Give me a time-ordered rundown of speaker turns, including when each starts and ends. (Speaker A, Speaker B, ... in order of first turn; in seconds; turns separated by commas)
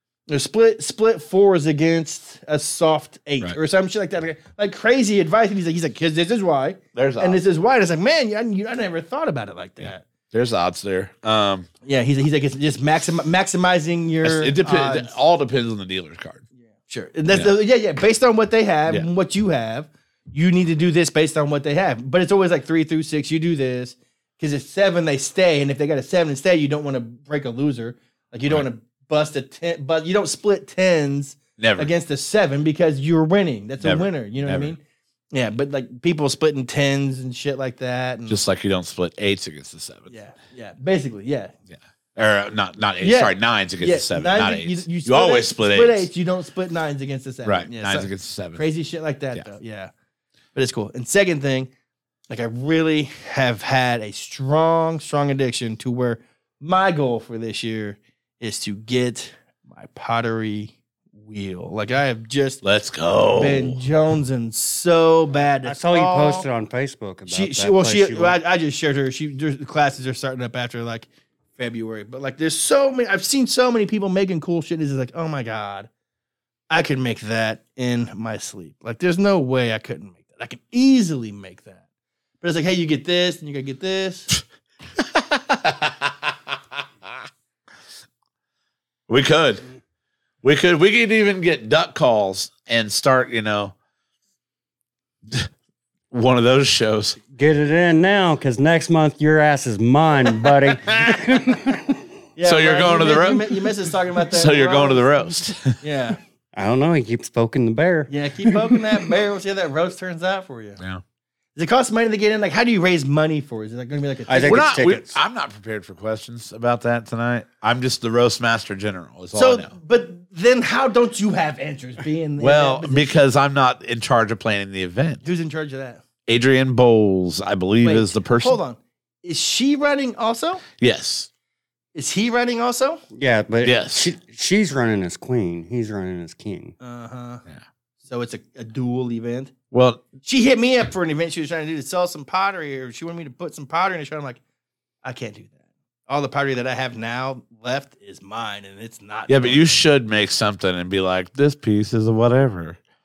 Speaker A: 0.3-10.0, Speaker B: 7.0-7.4, Speaker B: 10.3-11.7, Speaker A: 11.8-15.1, Speaker B: 14.2-16.4, Speaker A: 16.7-34.8, Speaker B: 17.3-17.5, Speaker B: 31.6-31.9, Speaker B: 33.8-34.7, Speaker A: 35.3-38.4, Speaker B: 38.3-40.1, Speaker A: 40.1-41.5, Speaker B: 41.7-46.1, Speaker A: 43.0-49.9, Speaker B: 47.4-48.6, Speaker A: 50.5-51.7, Speaker A: 52.3-62.6, Speaker B: 62.6-63.8, Speaker A: 63.4-66.5, Speaker C: 65.6-68.3, Speaker A: 67.3-75.9, Speaker A: 76.7-81.8, Speaker A: 82.4-84.4, Speaker B: 85.0-86.3, Speaker B: 89.1-89.6, Speaker B: 90.4-93.7, Speaker B: 96.1-97.2, Speaker C: 97.3-102.0, Speaker B: 100.9-101.2, Speaker A: 102.3-105.1, Speaker B: 102.4-103.5, Speaker B: 104.3-105.8, Speaker A: 105.8-106.2, Speaker C: 106.5-108.6, Speaker A: 108.1-110.8, Speaker A: 111.5-114.7, Speaker C: 114.3-115.1, Speaker B: 114.4-119.7, Speaker A: 119.3-123.2, Speaker B: 122.4-125.2, Speaker A: 125.2-126.0, Speaker B: 126.2-128.6, Speaker A: 127.8-130.6, Speaker B: 130.8-131.3, Speaker A: 131.9-133.0, Speaker C: 133.1-136.7, Speaker B: 133.6-134.1, Speaker A: 136.8-137.4, Speaker A: 138.0-139.5, Speaker B: 139.7-140.0, Speaker A: 140.2-144.4, Speaker A: 145.0-149.8, Speaker B: 149.3-152.8